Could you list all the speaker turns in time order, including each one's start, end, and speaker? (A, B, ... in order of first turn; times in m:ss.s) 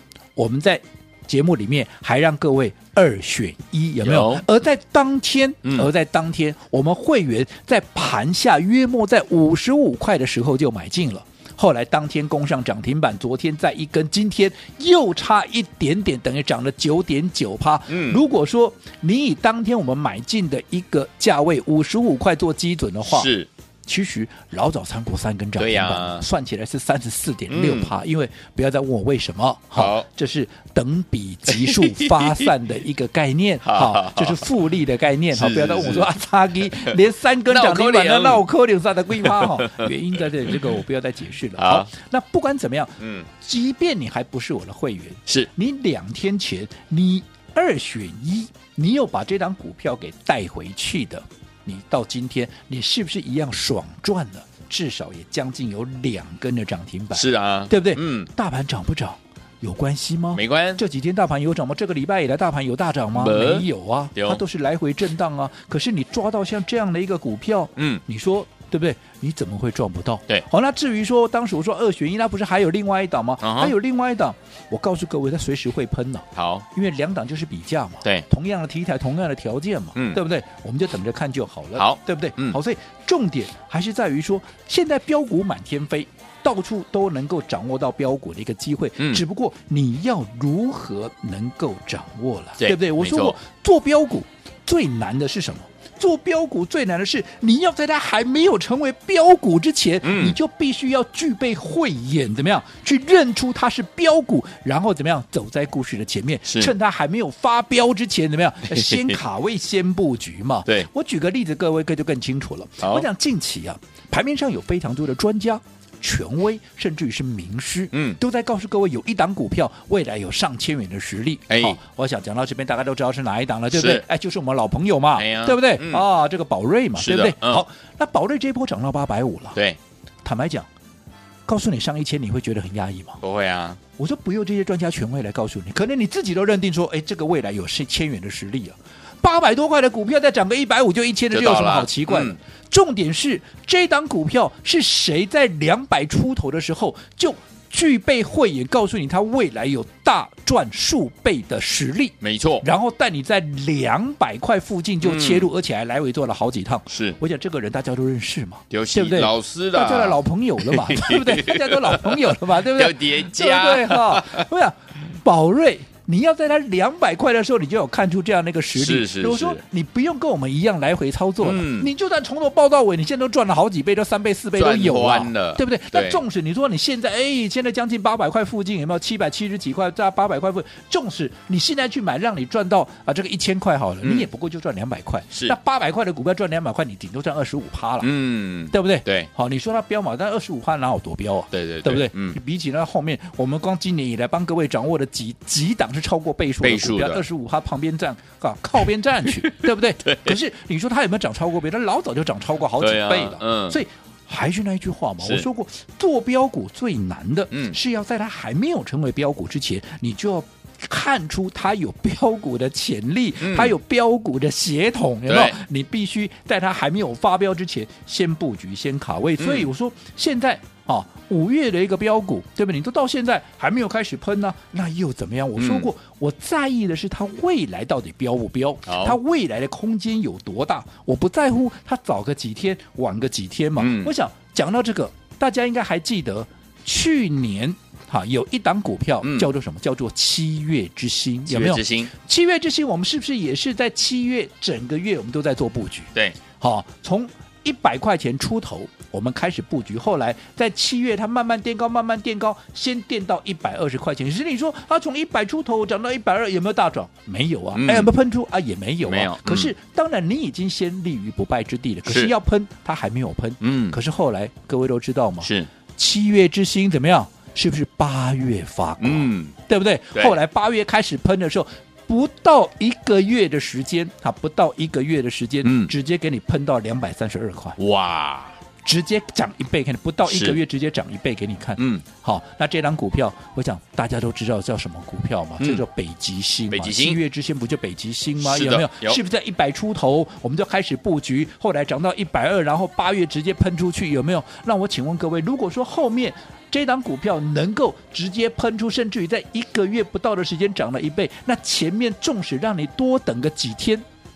0:00.4-0:23.3 A
0:04.0-0:04.4 B
0:17.9-0:18.2 B
0:23.0-0:23.5 B
0:23.9-2:09.6 A
0:25.6-0:26.2 B
0:27.5-0:27.9 B
0:29.8-0:30.1 B
0:31.5-0:32.5 B
0:33.6-0:34.5 B
0:35.3-0:36.1 B
0:36.6-0:38.4 B
0:39.2-0:39.9 B
0:41.6-0:41.9 B
0:43.0-0:43.3 B
0:57.1-0:58.3 B
1:00.3-1:00.8 B
1:03.1-1:04.4 B
1:07.8-1:08.0 B
1:13.4-1:13.8 B
1:16.4-1:16.7 B
1:20.0-1:20.2 B
1:21.8-1:22.6 B
1:32.6-1:33.4 B
1:40.0-1:40.4 B
1:46.5-1:46.7 B
1:48.7-1:49.2 B
1:52.8-1:53.1 B
1:57.9-1:58.2 B
2:01.5-2:01.8 B
2:03.7-2:04.0 B
2:05.2-2:06.0 B
2:07.0-2:07.6 B
2:10.2-2:10.7 A
2:11.5-2:13.2 A
2:13.2-2:13.8 B
2:14.0-3:08.1 A
2:21.3-2:22.4 B
2:32.2-2:32.7 B
2:35.0-2:35.5 B
2:36.9-2:37.2 B
2:38.7-2:44.5 B
2:48.7-2:49.6 B
2:51.4-2:51.9 B
2:54.6-2:56.2 B
3:08.0-3:09.3 B
3:08.7-4:37.8 A
3:11.5-3:12.4 B
3:16.6-3:17.2 B
3:19.2-3:20.4 B
3:22.8-3:23.8 B
3:25.2-3:25.5 B
3:27.5-3:27.8 B
3:33.4-3:33.8 B
3:35.3-3:35.6 B
3:39.4-3:39.7 B
3:45.6-3:45.9 B
3:48.9-3:49.2 B
3:53.8-3:54.1 B
3:59.2-3:59.5 B
4:01.5-4:02.1 B
4:17.7-4:18.1 B
4:19.0-4:19.7 B
4:22.1-4:22.3 B
4:23.6-4:24.0 B
4:25.4-4:25.7 B
4:29.0-4:29.6 B
4:35.6-4:35.9 B
4:37.8-4:38.6 B
4:38.8-5:04.0 A
4:40.3-4:40.6 B
4:41.8-4:42.0 B
4:46.7-4:47.2 B
4:48.4-4:49.2 B